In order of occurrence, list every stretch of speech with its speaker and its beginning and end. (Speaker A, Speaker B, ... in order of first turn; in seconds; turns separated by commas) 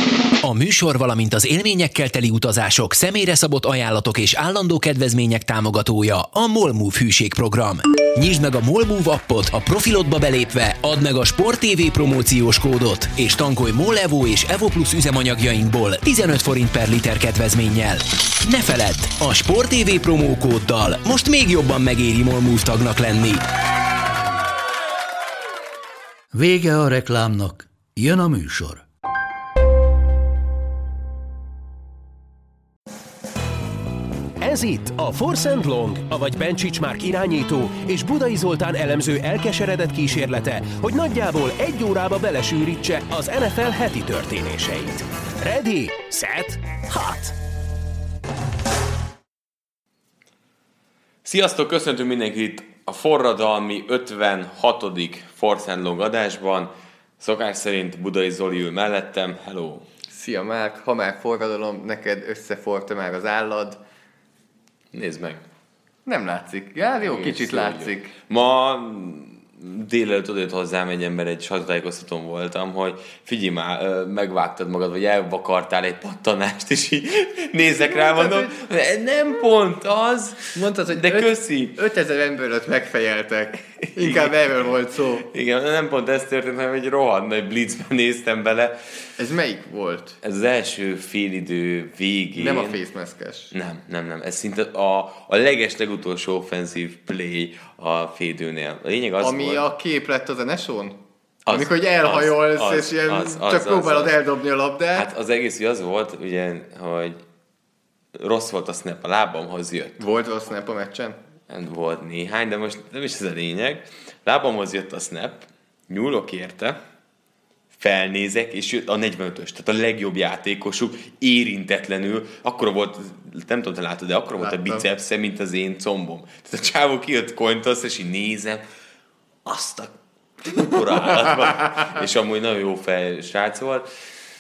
Speaker A: 0.4-23.4, Speaker B: 26.3-28.9, Speaker C: 34.4-47.3, Speaker D: 51.2-59.9, Speaker E: 60.1-63.8, Speaker D: 64.9-65.4, Speaker E: 66.0-68.1, Speaker D: 67.0-81.8, Speaker E: 77.7-78.5, Speaker E: 80.5-85.3, Speaker D: 84.0-84.4, Speaker D: 85.2-88.9, Speaker E: 89.2-90.2, Speaker D: 90.2-92.8, Speaker E: 92.3-93.5, Speaker D: 93.5-99.6, Speaker E: 99.2-105.1, Speaker D: 101.5-104.2, Speaker D: 104.9-107.2, Speaker D: 108.2-110.0, Speaker E: 110.0-111.2, Speaker D: 111.5-116.8, Speaker D: 117.7-128.6, Speaker E: 124.4-124.8, Speaker D: 129.4-134.0